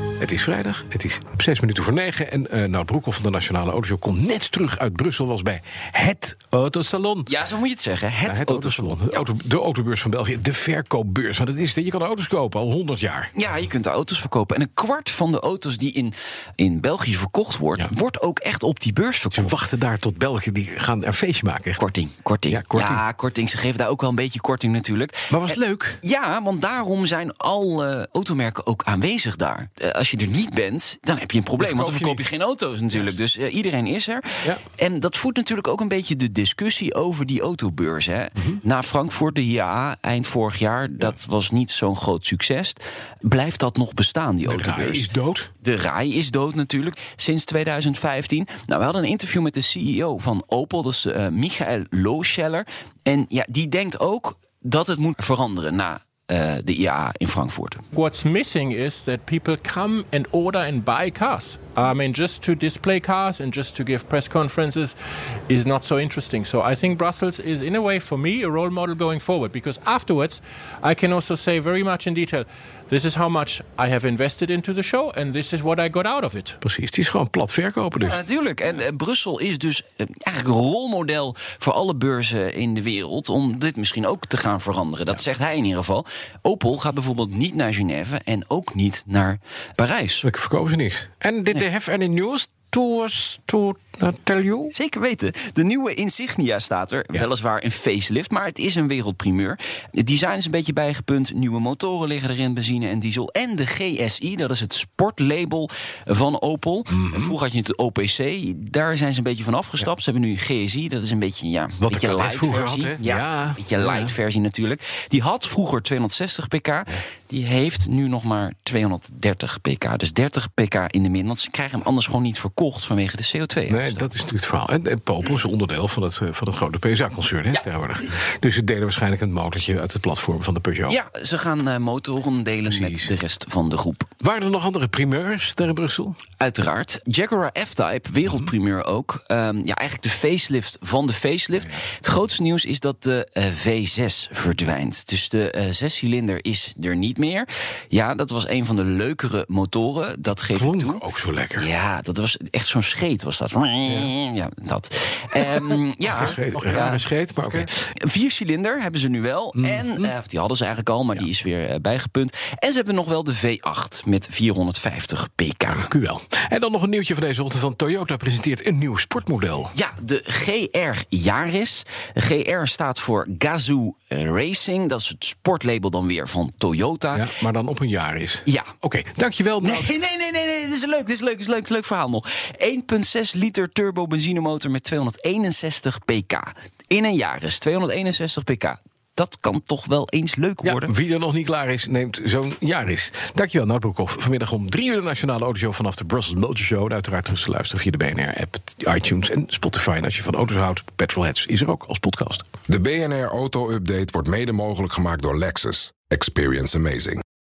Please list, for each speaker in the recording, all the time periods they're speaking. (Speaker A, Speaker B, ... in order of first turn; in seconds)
Speaker A: 0.2-7.3, 8.3-13.3, 19.3-21.8, 22.5-23.0, 25.3-26.0, 31.6-32.3, 44.5-45.5, 76.6-78.2, 90.2-94.7, 106.9-107.4, 111.8-114.2, 123.7-131.0, 132.7-133.2, 134.2-136.2, 150.5-151.7, 153.9-154.1, 156.1-157.7, 159.6-160.1, 165.7-169.7, 177.1-179.9, 190.6-202.5
Speaker B: 7.3-9.2, 13.3-19.6, 21.8-45.1, 45.6-57.8, 78.0-90.2, 94.7-124.1, 130.9-134.1, 136.4-151.0, 151.6-165.9, 169.7-177.3, 179.6-190.9
Speaker C: 57.9-65.0, 65.5-76.6
Speaker D: 202.7-207.2